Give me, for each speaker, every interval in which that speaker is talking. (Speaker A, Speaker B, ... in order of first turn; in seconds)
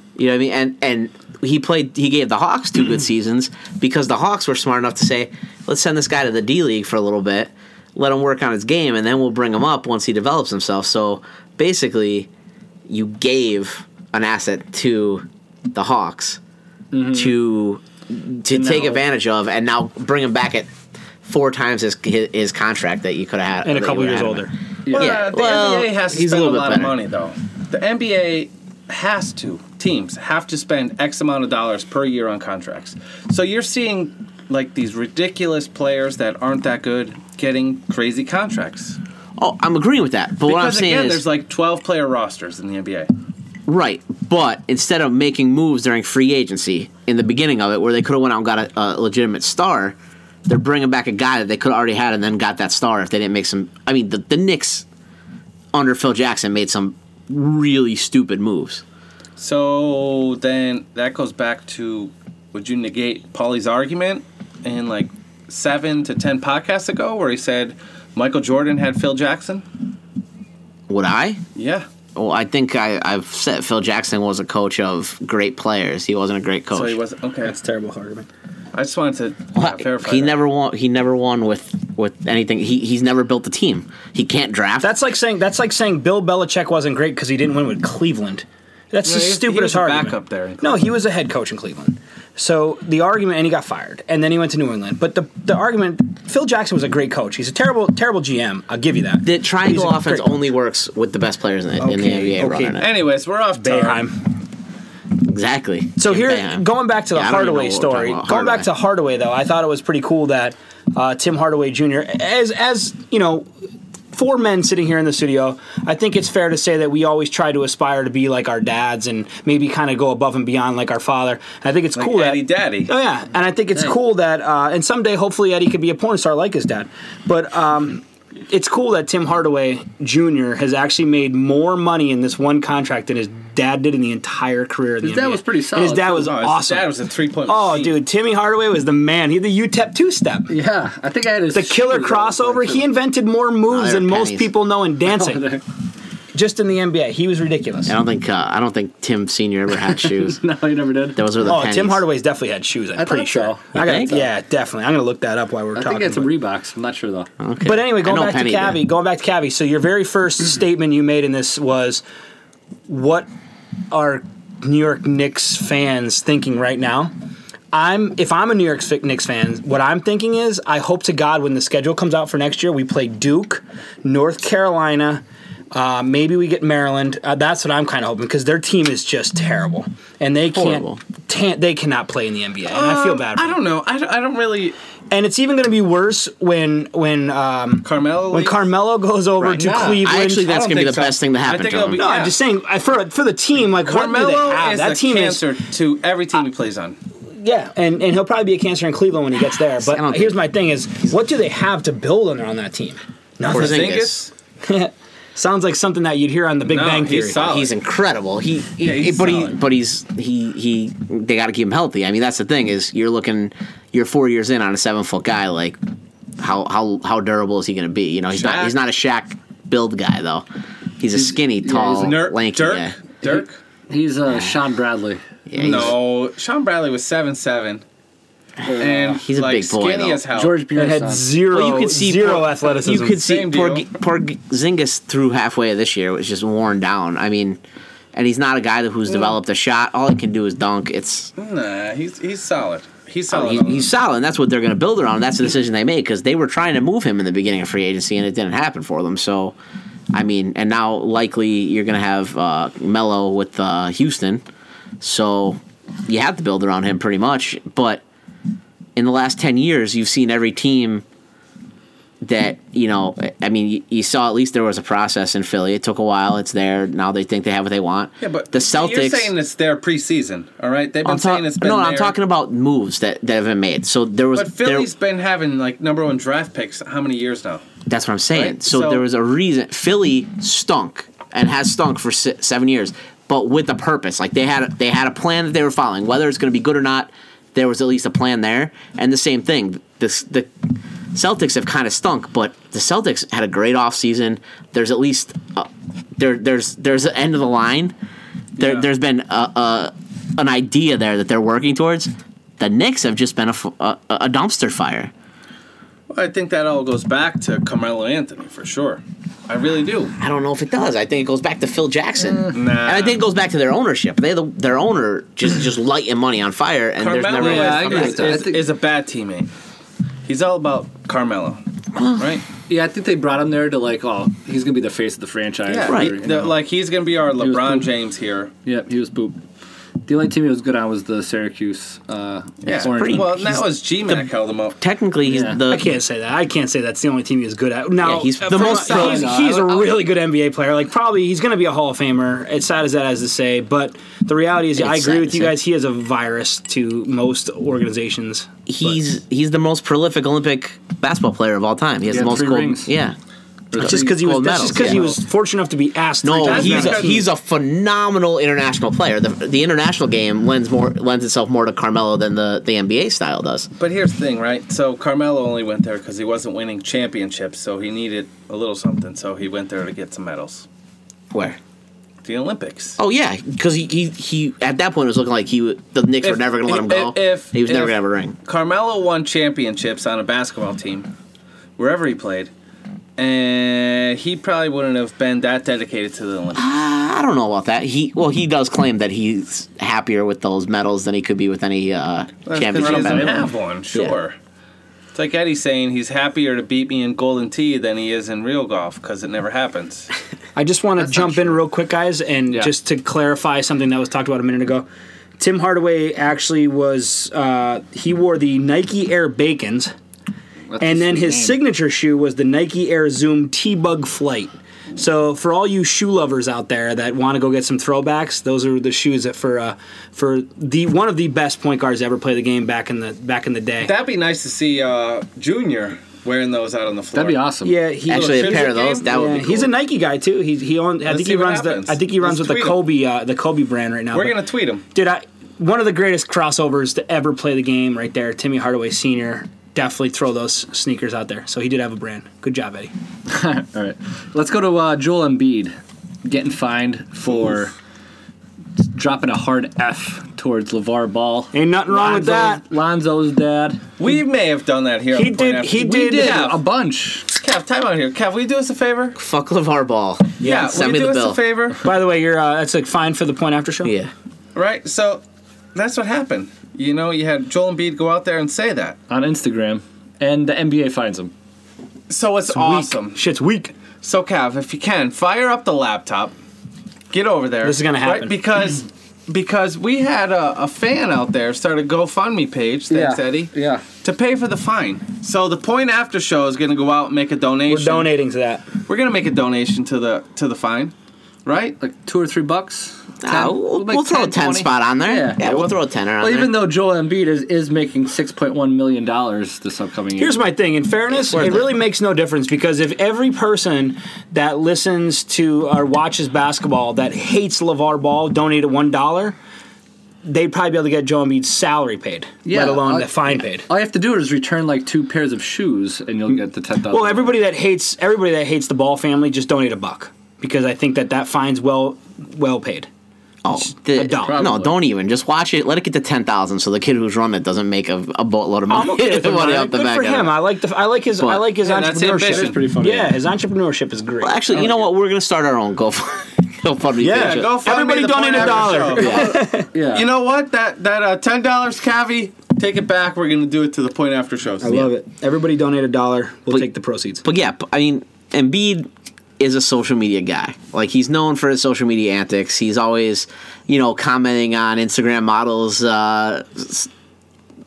Speaker A: 0.2-12.3, 12.9-16.4, 17.1-20.7, 21.2-27.0, 39.4-41.2, 43.7-50.0, 50.5-54.9, 55.7-58.8, 70.9-71.4, 72.2-77.0, 79.5-85.0, 99.2-102.9, 105.2-108.7, 143.7-144.5, 147.9-150.4, 151.2-152.0, 153.8-154.3, 157.4-158.8, 180.5-181.0, 189.4-192.0, 199.8-200.4, 203.5-204.2, 207.3-215.8, 216.4-220.5, 221.0-222.9, 225.5-226.0, 228.7-230.2, 231.5-237.6, 238.1-241.3, 243.3-249.6, 250.1-254.4, 255.0-258.0, 259.0-261.1, 262.2-269.3, 271.1-274.9, 277.9-290.5, 291.1-297.9, 298.6-305.1, 310.2-318.5, 322.0-322.3, 325.9-326.2, 332.7-334.3, 334.8-335.9, 338.0-339.3, 344.8-345.6, 348.7-353.2, 353.8-355.1, 356.2-363.7, 371.3-371.6, 373.0-378.4, 386.6-394.2, 428.1-429.7, 459.2-461.4, 463.8-464.1, 493.2-496.6, 501.1-501.7, 523.4-530.4, 531.2-531.5, 534.2-537.6, 538.9-539.4, 547.2-548.9, 549.4-556.9
Speaker B: 16.9-17.4, 18.5-19.0, 24.9-25.1, 135.0-136.3, 140.5-142.9, 145.1-145.6, 150.0-151.2, 153.0-153.8, 155.8-157.3, 221.1-222.2, 223.2-225.2, 228.6-229.2, 230.3-231.3, 317.4-318.6, 322.7-326.6, 327.4-327.9, 328.6-329.4, 330.1-333.6, 335.2-335.6, 338.7-339.9, 352.1-352.9, 353.7-355.2, 392.8-393.5, 401.0-401.6, 410.7-411.6, 427.1-427.8, 443.3-447.7, 448.9-453.9, 455.8-457.3, 469.1-471.3, 482.9-483.8, 491.8-500.4, 512.5-517.4, 524.2-524.8, 532.2-533.2, 539.7-540.1
Speaker C: 23.6-24.5, 77.4-78.3, 84.8-100.4, 101.8-102.8, 103.6-104.2, 106.0-113.5, 114.1-136.9, 137.5-140.5, 141.5-145.5, 146.3-147.9, 151.4-156.3, 157.6-162.0, 162.9-163.3, 163.9-167.1, 167.7-183.6, 185.1-190.5, 192.0-195.4, 197.4-203.9, 204.6-207.4, 230.8-233.2, 335.7-349.0, 353.8-357.2, 400.6-404.9, 405.4-409.9, 410.8-423.9, 427.6-434.4, 434.9-442.9, 451.5-452.6, 455.1-456.4, 460.4-460.8, 461.8-463.9, 472.5-473.7, 477.6-478.4, 487.7-488.6, 500.2-509.4, 510.2-513.7, 516.3-522.9, 523.5-524.4, 528.7-534.4, 537.0-539.7, 544.6-547.2
Speaker D: 24.9-39.0, 40.5-43.1, 59.4-69.6, 71.5-71.9, 76.7-77.5, 78.7-80.4, 89.0-90.9, 102.8-104.1, 122.0-122.9, 136.2-138.0, 182.7-184.8, 187.8-188.7, 189.5-192.4, 193.8-197.0, 203.5-204.3, 206.7-207.8, 208.8-209.6, 218.3-218.8, 221.9-223.6, 225.6-227.8, 228.8-230.6, 233.1-233.9, 239.1-239.3, 241.4-243.9, 268.2-272.1, 274.4-277.6, 278.3-279.0, 298.6-298.9, 306.1-310.1, 312.5-313.2, 317.0-319.5, 320.3-321.6, 322.2-322.4, 325.7-328.5, 332.6-334.8, 338.9-339.2, 356.4-357.2, 363.8-370.7, 372.2-373.0, 376.2-381.1, 381.8-382.5, 383.2-386.7, 392.5-394.4, 395.1-400.1, 423.8-427.4, 428.1-429.1, 431.1-432.8, 434.1-434.8, 454.0-456.6, 457.3-459.2, 460.4-461.8, 464.6-465.2, 465.8-469.0, 472.1-473.2, 474.0-476.4, 477.1-483.5, 484.0-488.1, 488.9-490.9, 491.4-491.8, 531.6-532.7, 537.1-539.3, 539.9-544.9